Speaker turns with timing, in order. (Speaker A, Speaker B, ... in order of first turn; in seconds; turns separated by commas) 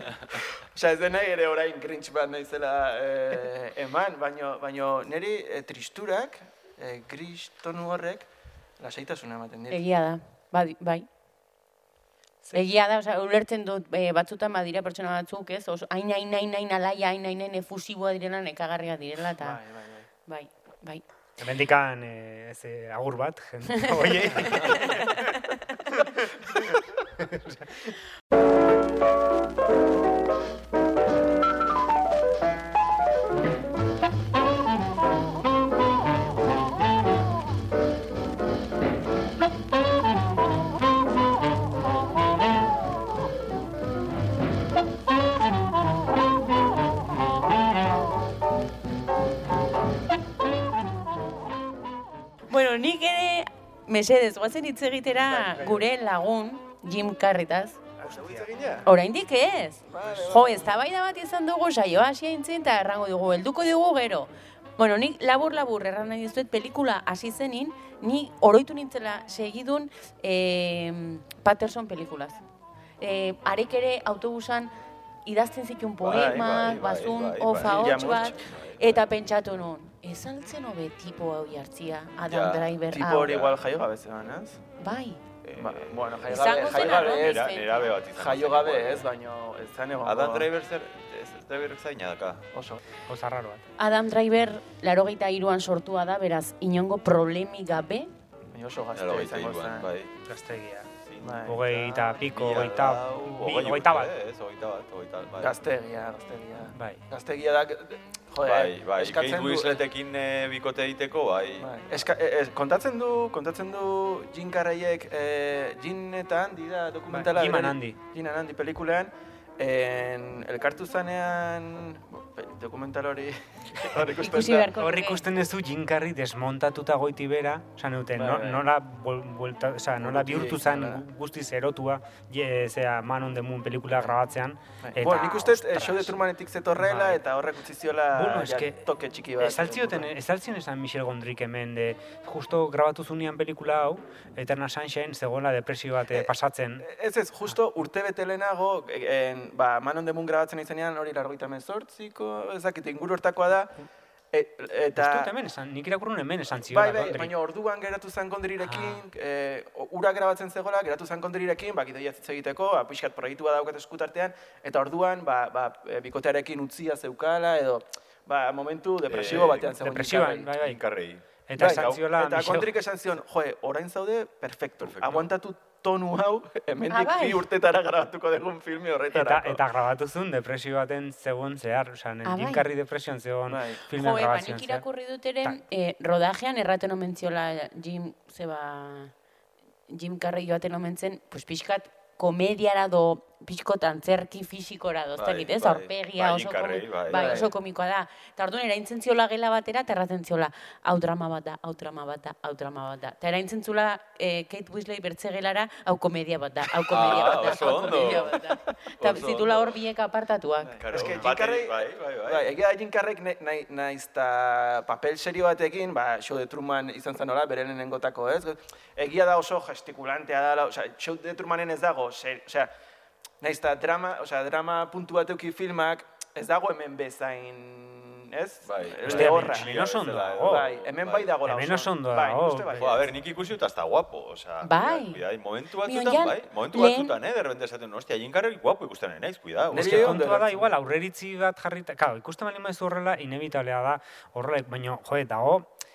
Speaker A: 0.7-9.8, Speaker B: 9.7-11.1, Speaker B: 12.5-19.6, Speaker A: 19.4-20.1, Speaker B: 20.2-21.0, Speaker C: 21.4-25.3, Speaker B: 24.5-25.3, Speaker C: 25.9-27.9, Speaker B: 52.5-57.8, Speaker C: 55.3-55.9, Speaker A: 58.0-58.9, Speaker C: 58.0-58.5, Speaker B: 58.8-72.4, Speaker A: 59.9-60.7, Speaker B: 73.0-74.7, Speaker B: 75.2-83.3, Speaker D: 76.0-79.0, Speaker A: 76.1-76.6, Speaker A: 77.6-78.5, Speaker D: 82.3-83.7, Speaker A: 82.9-84.6, Speaker B: 84.8-85.2, Speaker A: 85.4-87.5, Speaker D: 85.5-89.1, Speaker B: 86.3-88.0, Speaker A: 88.1-90.5, Speaker D: 90.0-92.5, Speaker A: 92.5-92.8, Speaker C: 93.1-93.6, Speaker B: 93.8-98.1, Speaker A: 98.5-99.9, Speaker D: 98.9-100.1, Speaker C: 100.2-100.9, Speaker D: 101.1-101.4, Speaker A: 101.2-102.2, Speaker C: 101.5-104.1, Speaker D: 102.2-105.6, Speaker A: 105.4-109.8, Speaker C: 106.7-107.0, Speaker D: 108.4-111.7, Speaker A: 111.6-124.7, Speaker C: 117.1-118.0, Speaker B: 124.2-125.3, Speaker C: 124.7-136.2, Speaker A: 128.2-128.6, Speaker A: 130.0-131.0, Speaker A: 134.8-140.1, Speaker C: 136.8-137.2, Speaker C: 138.1-138.8, Speaker C: 139.4-146.9, Speaker A: 146.1-153.8, Speaker A: 154.3-155.3, Speaker C: 154.9-157.3, Speaker A: 156.7-170.5, Speaker C: 158.6-159.1, Speaker D: 169.1-169.7, Speaker C: 169.2-170.8, Speaker D: 170.5-172.1, Speaker C: 171.5-172.7, Speaker A: 171.6-179.6, Speaker D: 174.8-175.3, Speaker B: 176.9-177.4, Speaker C: 179.1-184.8, Speaker B: 182.2-182.7, Speaker A: 183.5-183.8, Speaker B: 183.9-189.1, Speaker B: 189.9-210.7, Speaker D: 195.2-197.5, Speaker A: 197.1-197.5, Speaker A: 206.9-208.7, Speaker D: 206.9-208.4, Speaker D: 209.0-209.8, Speaker A: 210.6-222.7, Speaker D: 210.8-212.5, Speaker C: 210.9-211.3, Speaker A: 223.4-229.9, Speaker D: 228.7-231.3, Speaker C: 229.1-230.7, Speaker A: 230.4-233.2, Speaker C: 231.4-232.9, Speaker D: 232.7-240.3, Speaker B: 234.6-235.2, Speaker B: 235.8-237.1, Speaker A: 239.7-240.7, Speaker C: 239.7-245.7